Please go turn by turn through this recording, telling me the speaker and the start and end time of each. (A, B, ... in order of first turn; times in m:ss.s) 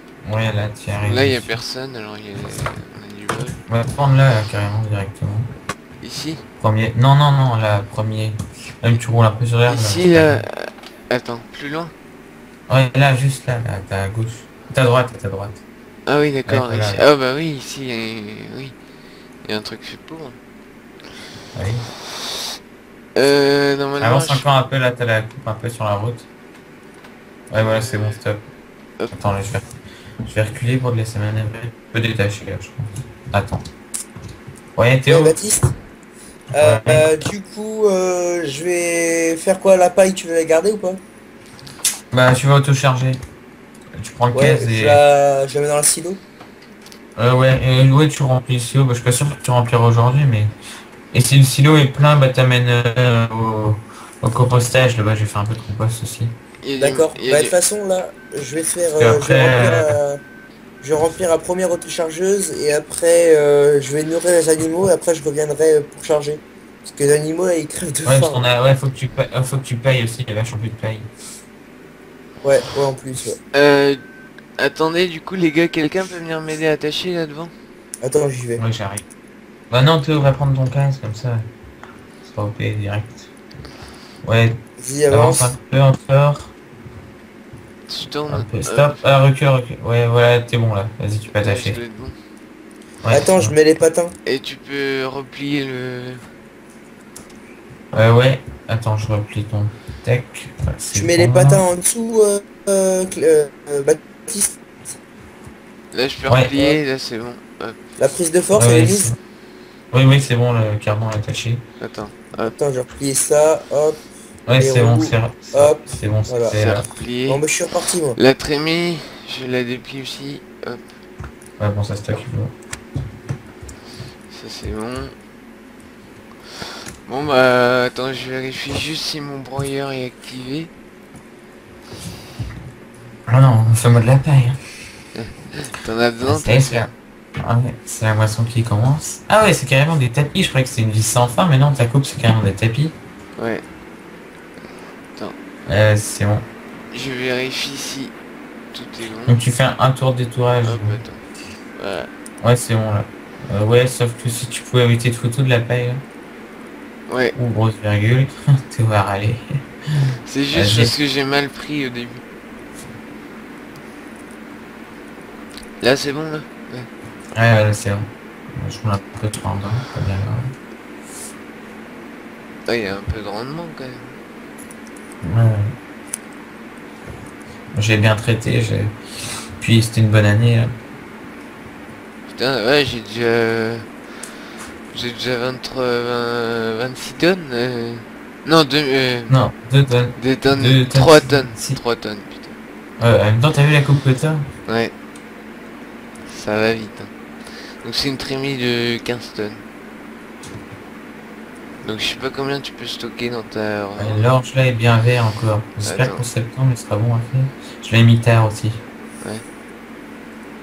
0:00.2-0:01.6 A
0:01.0-0:03.6 B
0:03.7-0:05.5 A
0:06.0-0:06.4 B
0:06.6-0:10.4 A
0:09.6-0:11.9 B
0:12.7-0:15.6 A
0:16.1-0:18.8 B
0:16.5-0:17.0 A
0:19.4-0:20.4 B
0:21.5-0:21.9 A
0:23.2-0:24.5 B
0:24.0-0:26.3 A
0:27.5-0:28.4 A
0:27.5-0:28.2 B
0:29.1-0:29.7 A
0:30.2-0:33.6 A
0:34.8-0:35.4 A
0:35.1-0:35.7 C
0:36.6-0:37.1 A
0:36.6-0:41.0 C
0:42.1-0:43.2 A
0:44.0-0:45.0 A
0:44.3-0:46.2 C
0:47.2-0:50.5 A
0:51.1-0:56.4 A
0:56.6-0:57.6 B
0:56.8-1:00.2 C
0:59.0-1:00.0 A
1:00.8-1:08.5 C
1:08.0-1:11.1 A
1:12.4-1:13.4 C
1:13.5-1:14.0 B
1:14.6-1:17.5 B
1:18.0-1:18.6 C
1:18.6-1:19.1 A
1:19.7-1:21.5 A
1:22.2-1:23.3 A
1:24.2-1:26.5 A
1:24.8-1:25.5 C
1:27.9-1:29.1 B
1:28.3-1:31.8 A
1:31.4-1:32.2 B
1:33.0-1:33.5 A
1:33.1-1:34.1 C
1:34.2-1:36.2 B
1:37.9-1:41.6 A
1:40.9-1:44.6 C
1:45.9-1:48.0 B
1:46.3-1:46.5 A
1:48.0-1:49.1 C
1:48.6-1:49.2 A
1:49.9-1:51.6 A
1:51.8-1:52.5 B
1:52.5-1:54.0 C
1:54.5-1:56.9 A
1:54.5-1:56.6 C
1:56.6-1:57.4 B
1:57.3-1:58.2 C
1:58.1-2:00.9 B
2:01.6-2:02.5 A
2:04.3-2:05.1 B
2:07.1-2:10.7 B
2:13.3-2:14.6 A
2:15.1-2:16.9 B
2:16.2-2:23.0 A
2:23.4-2:23.6 B
2:25.6-2:26.5 A
2:26.9-2:28.1 B
2:28.7-2:29.4 B
2:29.3-2:31.0 A
2:30.6-2:31.2 B
2:31.8-2:32.1 B
2:32.4-2:36.0 A
2:37.1-2:37.4 B
2:37.4-2:40.9 A
2:40.3-2:42.2 B
2:45.8-2:46.9 B
2:47.3-2:50.5 A
2:52.7-2:54.2 B
2:55.2-2:55.8 A
2:57.7-2:59.0 A
2:59.6-3:00.7 A
3:02.3-3:03.9 B
3:04.9-3:09.4 B
3:09.3-3:11.8 A
3:10.2-3:12.6 B
3:13.0-3:14.5 A
3:14.7-3:14.9 B
3:16.2-3:17.1 B
3:17.8-3:19.6 B
3:21.8-3:24.2 B
3:24.0-3:28.8 A
3:25.8-3:26.2 B